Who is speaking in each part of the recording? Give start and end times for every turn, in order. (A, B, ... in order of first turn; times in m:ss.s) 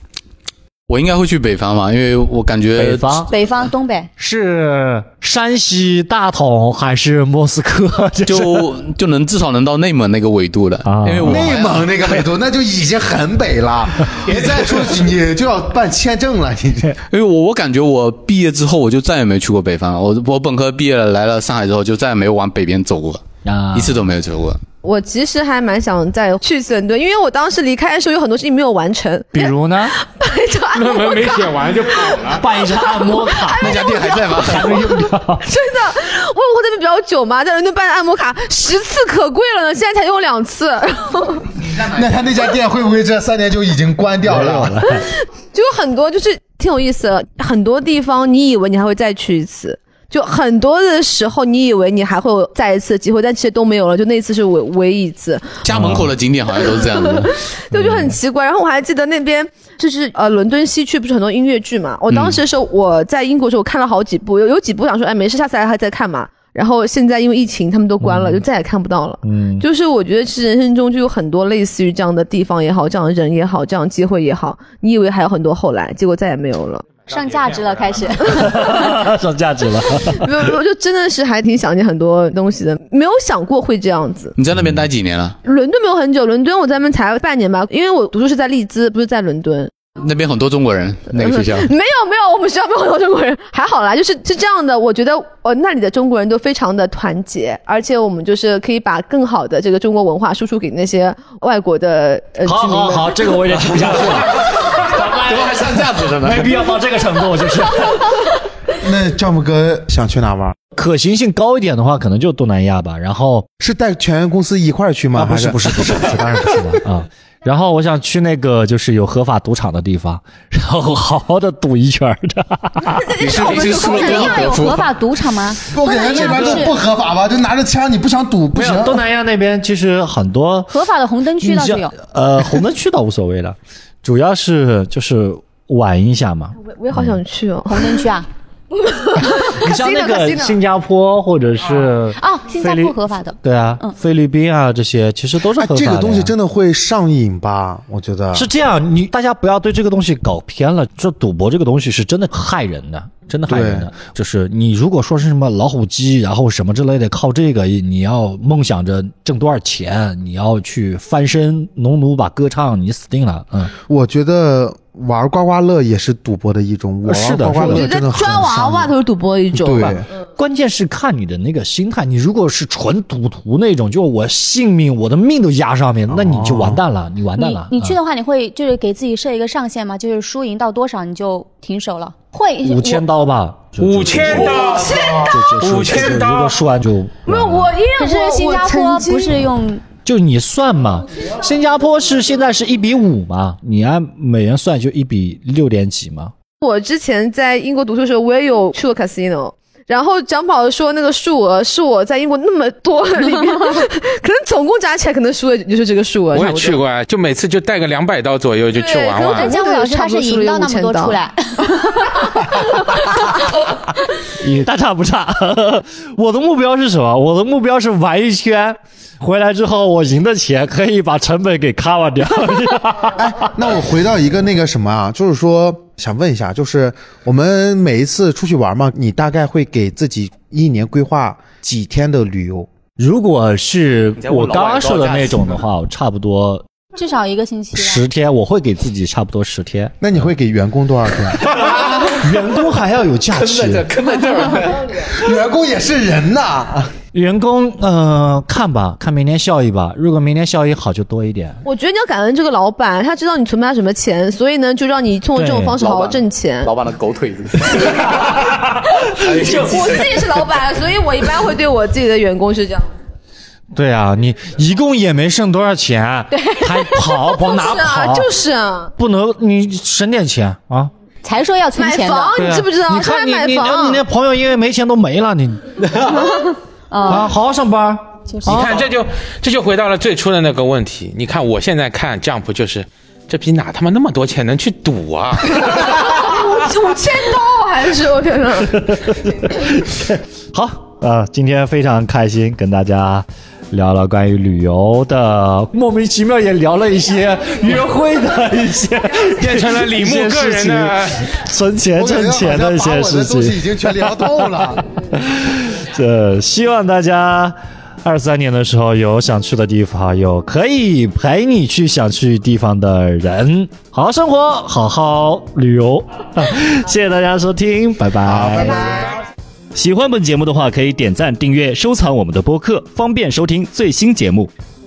0:00.9-0:03.3 A
0:02.8-0:03.3 B
0:03.3-0:04.1 C
0:04.2-0:08.7 B
0:08.3-0:12.2 A
0:10.8-0:11.5 B
0:11.2-0:16.9 D
0:14.2-0:15.0 A
0:17.1-0:24.6 A
0:23.4-0:24.1 B
0:24.8-0:41.5 E
0:29.3-0:30.0 B
0:30.7-0:32.4 F
0:32.3-0:35.4 B
0:33.6-0:35.0 A
0:41.7-0:44.8 D
0:44.2-0:45.1 B
0:44.9-0:55.6 E
0:55.6-0:57.3 A
0:55.7-0:56.2 B
0:56.6-1:17.0 E
0:57.7-0:58.2 B
1:02.1-1:02.4 A
1:08.0-1:08.4 B
1:09.2-1:09.6 B
1:17.1-1:17.9 F
1:17.1-1:18.9 C
1:18.3-1:20.3 B
1:20.2-1:24.4 E
1:24.4-1:25.4 A
1:24.5-1:24.9 B
1:25.4-1:29.7 E
1:30.0-1:31.7 A
1:31.1-1:43.4 E
1:42.4-1:48.1 B
1:43.8-1:46.6 A
1:48.8-1:50.6 D
1:50.8-1:53.5 B
1:53.6-1:56.5 D
1:55.2-2:03.1 B
2:03.0-2:04.6 E
2:03.2-2:04.9 A
2:03.8-2:06.7 C
2:05.7-2:09.0 D
2:08.5-2:10.8 B
2:10.7-2:11.9 C
2:11.4-2:17.2 B
2:16.6-2:18.1 E
2:17.7-2:18.3 C
2:18.7-2:20.6 E
2:19.3-2:26.3 B
2:22.2-2:23.9 C
2:25.4-2:28.5 D
2:28.3-2:43.7 B
2:33.5-2:33.9 D
2:43.9-2:48.9 D
2:47.0-2:47.9 B
2:47.6-2:50.0 E
2:49.5-2:50.0 D
2:50.4-2:58.0 B
2:56.1-2:56.8 D
2:57.4-3:03.0 C
3:02.6-3:07.8 B
3:03.8-3:06.6 F
3:04.3-3:05.6 E
3:07.3-3:09.4 E
3:08.0-3:09.8 C
3:10.0-3:16.3 B
3:16.6-3:26.8 E
3:26.3-3:29.5 F
3:28.7-3:31.2 E
3:29.3-3:33.5 C
3:34.3-3:43.2 B
3:43.1-3:52.7 D
3:53.0-3:56.6 B
3:54.2-3:55.6 A
3:57.0-3:58.1 C
3:57.8-4:00.0 B
4:00.0-4:01.7 D
4:01.5-4:02.0 A
4:01.7-4:03.9 B
4:03.3-4:05.2 A
4:05.0-4:06.9 D
4:07.1-4:11.6 B
4:11.6-4:16.7 E
4:15.3-4:15.8 B
4:15.8-4:18.5 A
4:17.8-4:18.1 E
4:19.1-4:20.5 A
4:19.1-4:22.9 E
4:23.8-4:28.3 B
4:26.3-4:27.3 C
4:27.3-4:28.9 E
4:29.0-4:30.9 B
4:31.2-4:32.4 C
4:31.8-4:34.0 E
4:32.4-4:35.7 B
4:36.4-4:37.3 C
4:37.1-4:38.8 B
4:38.3-4:38.8 C
4:38.4-4:46.2 F
4:45.6-4:48.9 E
4:48.7-5:04.5 B
4:59.3-5:01.3 F
5:02.0-5:04.8 D
5:05.1-5:18.9 B
5:18.2-5:19.2 D
5:19.8-5:24.5 B